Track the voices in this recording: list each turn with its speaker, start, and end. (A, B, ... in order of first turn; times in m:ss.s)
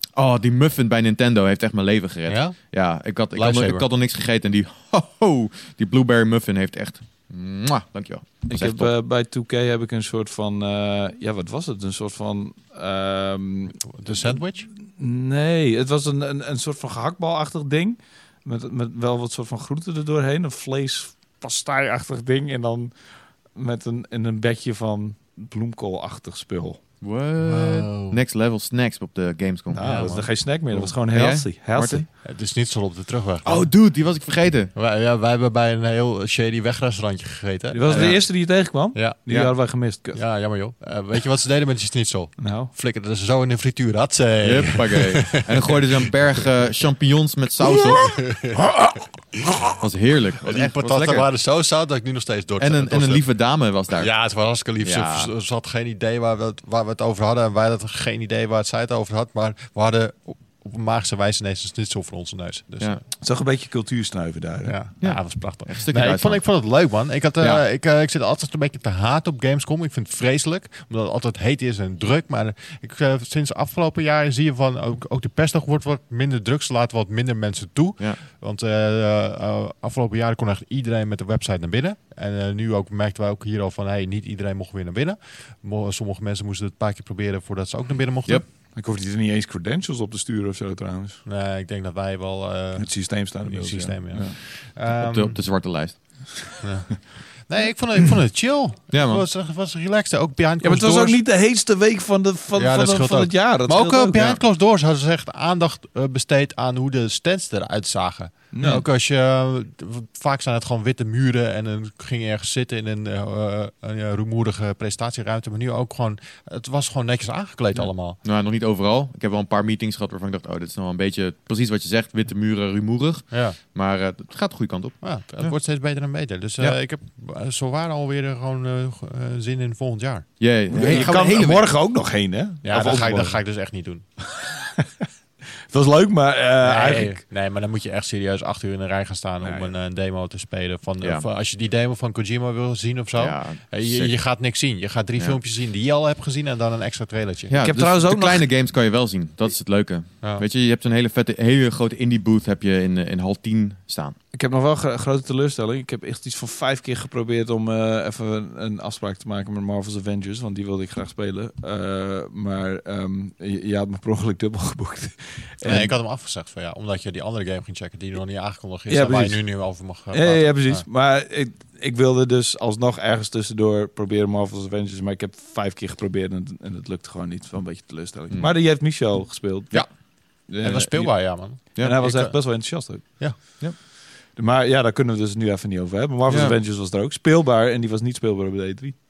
0:00.2-0:08.9 A
0:02.3-0:02.6 B
0:03.3-0:03.8 B
0:08.5-0:26.8 C
0:13.9-0:14.7 B
0:27.0-0:32.0 A
0:27.4-0:28.2 B
0:29.7-0:32.0 C
0:29.8-0:30.3 B
0:32.2-0:33.7 B
0:33.4-0:34.7 A
0:34.7-0:45.8 B
0:37.7-0:40.2 C
0:37.9-0:38.3 A
0:39.3-0:39.5 A
0:42.4-0:42.7 C
0:44.4-0:48.4 A
0:48.1-0:48.6 B
0:48.5-0:48.9 C
0:49.3-0:49.7 B
0:49.8-0:51.3 A
0:50.4-1:03.0 B
0:52.6-0:55.3 A
1:03.2-1:04.8 C
1:04.6-1:28.4 B
1:05.0-1:07.6 A
1:28.6-1:31.2 C
1:31.2-1:35.4 B
1:32.8-1:34.4 C
1:34.9-1:36.6 A
1:36.6-1:41.2 B
1:38.9-1:39.3 A
1:40.6-1:44.2 C
1:42.6-1:58.2 B
1:44.1-1:44.4 A
1:48.5-1:48.8 C
1:48.6-1:48.8 A
1:57.8-2:05.7 A
2:03.3-2:03.6 B
2:05.0-2:11.1 B
2:10.4-2:11.7 A
2:10.7-2:13.6 C
2:12.6-2:14.0 B
2:14.2-2:15.1 C
2:15.7-2:17.2 C
2:16.6-2:27.6 B
2:19.4-2:19.7 C
2:21.0-2:21.2 A
2:23.2-2:24.3 A
2:27.5-2:34.2 A
2:27.6-2:28.4 C
2:34.3-2:45.9 C
2:45.6-2:50.8 B
2:48.9-3:08.9 C
2:58.3-2:59.1 A
2:59.8-3:03.4 B
3:06.3-3:06.6 A